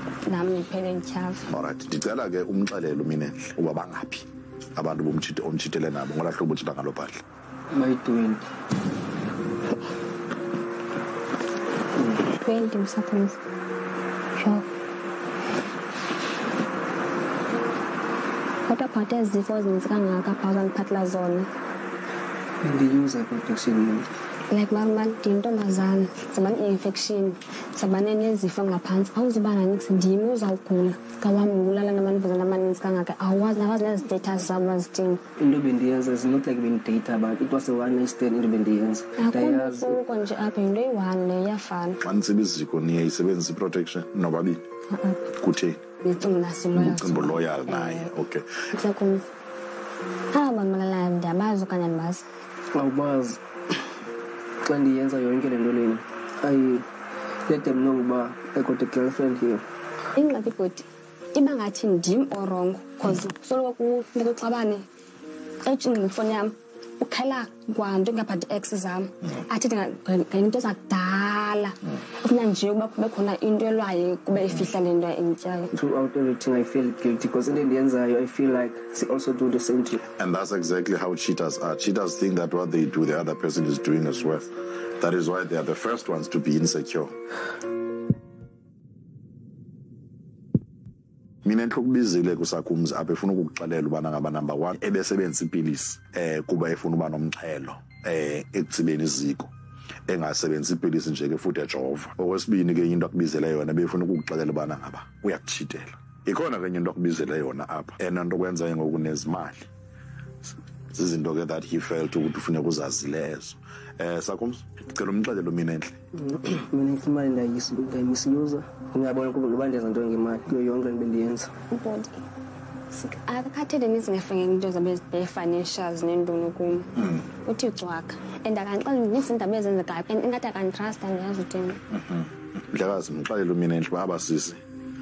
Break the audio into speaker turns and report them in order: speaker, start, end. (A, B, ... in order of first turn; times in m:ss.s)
0:00.3-0:01.4 A
0:01.5-0:07.2 B
0:07.7-0:08.5 C
0:12.4-0:13.4 A
0:14.4-0:14.6 A
0:18.6-0:21.5 A
0:22.6-0:24.1 C
0:24.5-0:35.2 A
0:35.4-0:40.0 C
0:39.2-0:42.0 A
0:42.0-0:44.6 B
0:44.9-0:45.3 A
0:45.4-0:45.8 B
0:46.0-0:48.1 A
0:46.7-0:48.4 B
0:48.7-0:49.2 A
0:50.3-0:52.2 A
0:52.7-0:53.4 C
0:54.6-0:56.9 C
0:57.4-0:59.6 C
1:00.2-1:04.8 A
1:05.6-1:15.7 A
1:15.7-1:20.0 C
1:20.2-1:27.1 B
1:31.4-1:39.5 B
1:40.1-1:49.7 B
1:50.9-1:55.9 B
1:56.1-2:01.5 C
2:01.7-2:02.1 A
2:02.9-2:11.8 A
2:07.0-2:07.2 B
2:11.9-2:14.6 B